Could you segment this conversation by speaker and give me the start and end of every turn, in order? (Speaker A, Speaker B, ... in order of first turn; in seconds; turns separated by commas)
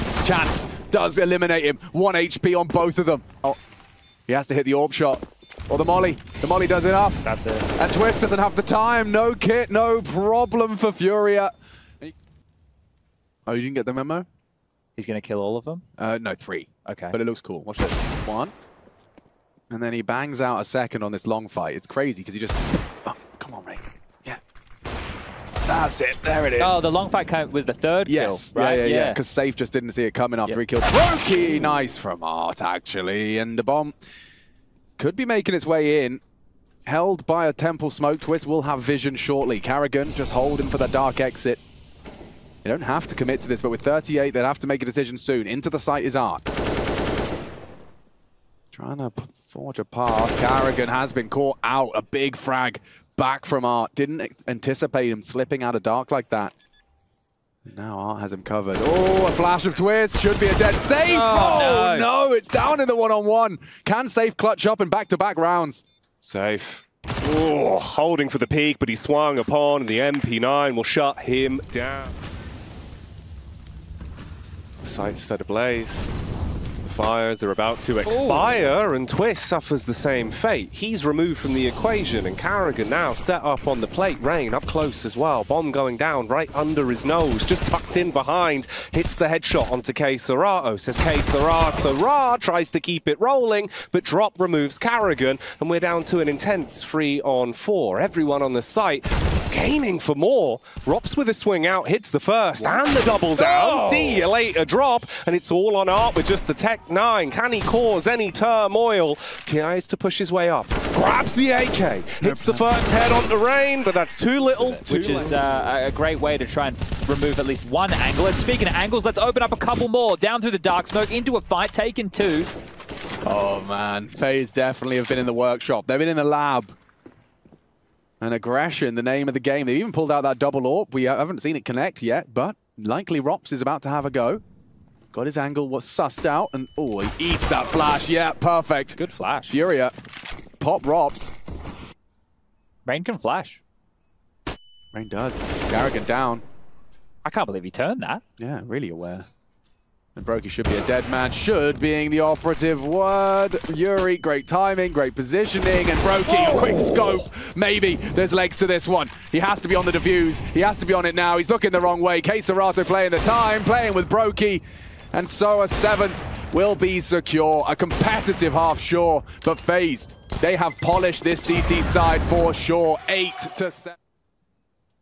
Speaker A: 0.2-3.6, Speaker A: 4.3-12.2, Speaker B: 7.2-7.7, Speaker A: 13.5-14.3, Speaker B: 15.0-15.8, Speaker A: 16.0-18.5, Speaker B: 16.9-17.2, Speaker A: 19.7-24.4, Speaker A: 25.7-26.8, Speaker B: 26.6-29.2, Speaker A: 28.1-34.0, Speaker A: 35.0-36.2, Speaker A: 36.9-41.6, Speaker A: 42.6-46.5, Speaker A: 48.7-56.5, Speaker A: 57.6-65.8, Speaker B: 61.1-62.1, Speaker C: 66.2-72.1, Speaker C: 74.8-76.1, Speaker C: 76.8-115.4, Speaker B: 78.0-78.7, Speaker B: 103.3-104.3, Speaker A: 112.2-113.0, Speaker B: 114.6-122.5, Speaker A: 123.3-126.8, Speaker A: 128.2-134.4, Speaker A: 135.1-139.9, Speaker B: 139.0-139.6, Speaker A: 140.6-141.3, Speaker B: 142.8-143.6, Speaker A: 144.9-146.4, Speaker B: 147.2-148.2, Speaker A: 148.4-149.3, Speaker A: 150.2-164.6, Speaker A: 165.1-174.0